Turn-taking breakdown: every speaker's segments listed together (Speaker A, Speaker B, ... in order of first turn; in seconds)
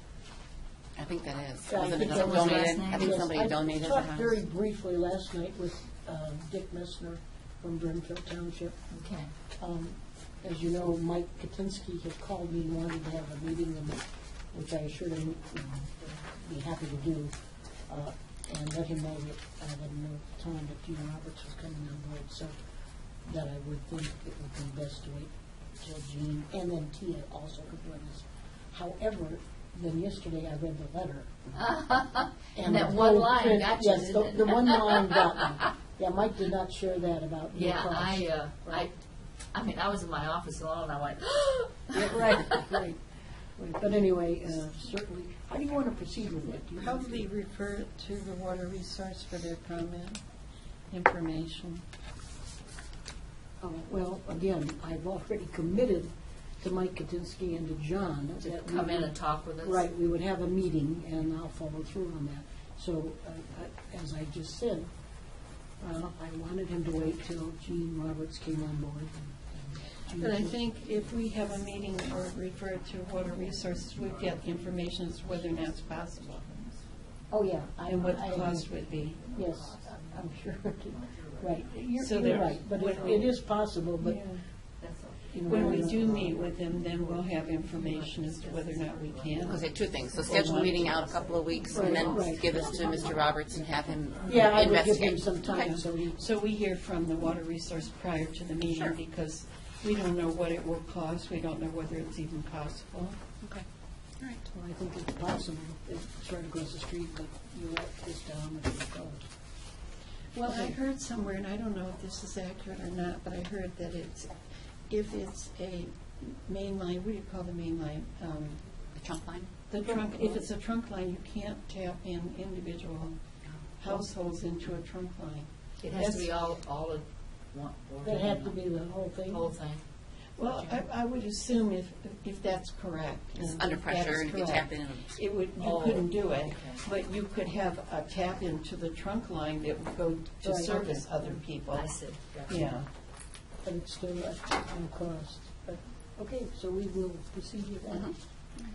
Speaker A: 0.9-4.4, 89.4-95.7, 118.9-119.5, 133.4-135.1, 147.9-148.2
Speaker B: 1.7-8.7, 9.6-17.3, 17.9-22.6, 23.2-31.3, 32.5-38.9, 41.9-43.0, 43.5-47.2, 53.6-64.9, 65.8-70.6, 77.3-78.7, 79.3-84.2, 85.4-86.4, 91.7-92.5, 94.2-96.2, 104.5-109.2, 110.5-110.7, 119.8-120.5, 128.0-129.5, 140.4-141.4, 143.6-148.1
Speaker C: 1.9-3.2, 8.9-9.3, 31.5-35.2, 37.5-39.0, 39.5-42.6, 58.4-59.9, 71.0-77.3, 77.9-83.3, 84.8-94.4, 125.8-128.6, 129.3-129.8, 130.4-130.9, 135.6-136.8, 141.7-142.6
Speaker D: 46.8-50.2, 50.9-51.8, 70.2-76.4, 77.8-79.2, 82.0-83.3, 84.0-84.4, 85.3-90.9, 91.8-92.3, 95.5-103.2, 110.3-114.3, 114.9-118.6, 119.7-123.2, 123.8-126.3, 130.4-142.9